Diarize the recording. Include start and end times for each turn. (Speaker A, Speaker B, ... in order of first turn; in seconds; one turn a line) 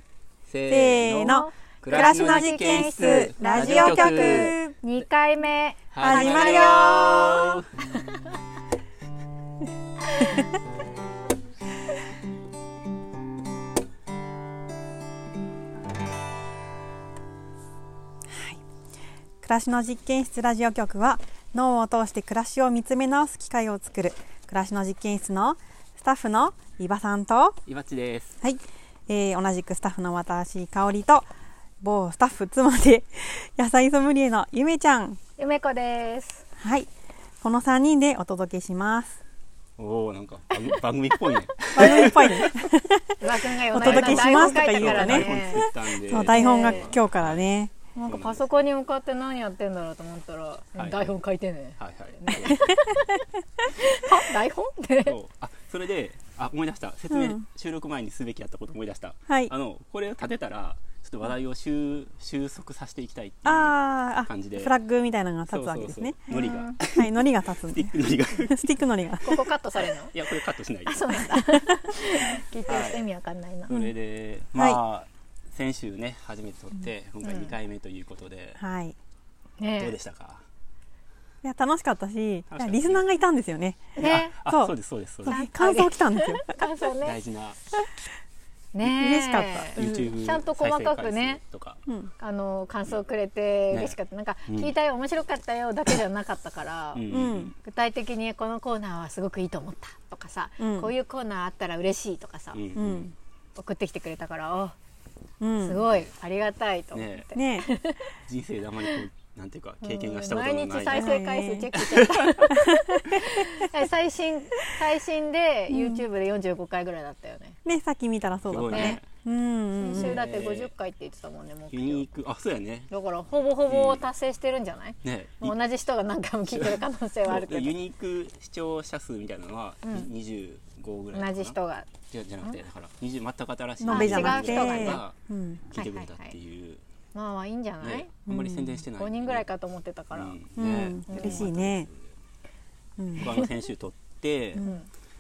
Speaker A: 0.5-5.0
Speaker B: 0.7-4.8
Speaker C: 1.3-8.2
Speaker A: 5.9-7.7
Speaker B: 6.0-7.4
Speaker C: 10.1-10.4
Speaker B: 18.3-18.6
Speaker B: 19.4-27.6
Speaker A: 27.7-28.4
Speaker B: 28.4-31.3
Speaker B: 31.8-35.2
Speaker C: 35.4-36.5
Speaker B: 36.6-36.9
Speaker B: 37.4-39.2
Speaker A: 39.8-42.5
Speaker B: 41.7-43.2
Speaker C: 43.2-45.6
Speaker B: 43.7-47.7
Speaker A: 43.7-47.5
Speaker C: 46.2-47.0
Speaker C: 47.9-53.2
Speaker A: 48.1-48.4
Speaker A: 50.8-51.1
Speaker A: 51.8-52.7
Speaker C: 53.7-55.1
Speaker A: 55.0-64.8
Speaker B: 57.1-57.4
Speaker B: 63.5-69.4
Speaker A: 65.5-68.7
Speaker C: 66.3-66.8
Speaker C: 69.2-70.2
Speaker A: 69.8-71.2
Speaker C: 70.9-73.8
Speaker A: 72.7-73.1
Speaker A: 73.7-78.6
Speaker C: 77.2-77.5
Speaker B: 78.6-79.0
Speaker C: 79.6-80.0
Speaker A: 79.8-80.4
Speaker B: 81.4-84.7
Speaker A: 82.5-83.0
Speaker C: 84.0-84.3
Speaker A: 84.0-85.4
Speaker B: 85.2-86.6
Speaker C: 85.3-87.2
Speaker A: 87.0-87.6
Speaker C: 88.7-91.4
Speaker B: 88.8-90.1
Speaker A: 89.7-91.8
Speaker B: 91.9-92.1
Speaker C: 92.2-97.1
Speaker A: 93.7-94.7
Speaker A: 97.0-97.5
Speaker B: 97.1-97.5
Speaker C: 97.6-102.6
Speaker B: 100.6-100.9
Speaker A: 102.5-103.1
Speaker B: 102.8-103.1
Speaker C: 103.6-104.8
Speaker B: 105.4-105.8
Speaker C: 105.6-108.1
Speaker A: 106.9-107.3
Speaker B: 107.3-107.7
Speaker A: 108.2-111.2
Speaker C: 109.8-117.6
Speaker B: 110.9-111.7
Speaker A: 111.8-112.3
Speaker B: 112.5-113.2
Speaker B: 115.7-116.0
Speaker B: 117.7-120.2
Speaker A: 118.5-119.1
Speaker C: 118.7-119.0
Speaker C: 119.8-122.1
Speaker A: 119.9-120.7
Speaker A: 121.7-122.9
Speaker C: 122.9-127.8
Speaker A: 123.7-124.1
Speaker A: 125.0-125.5
Speaker A: 126.5-131.6
Speaker C: 129.8-130.1
Speaker C: 131.1-132.6
Speaker A: 132.1-136.8
Speaker B: 133.8-135.6
Speaker C: 133.9-135.0
Speaker C: 135.8-136.3
Speaker C: 137.1-138.1
Speaker A: 137.8-139.5
Speaker B: 138.3-138.8
Speaker C: 139.0-140.4
Speaker A: 140.1-142.1
Speaker B: 140.6-141.9
Speaker C: 141.1-141.5
Speaker B: 143.0-143.3
Speaker A: 143.2-144.6
Speaker B: 144.6-144.8
Speaker C: 144.6-144.9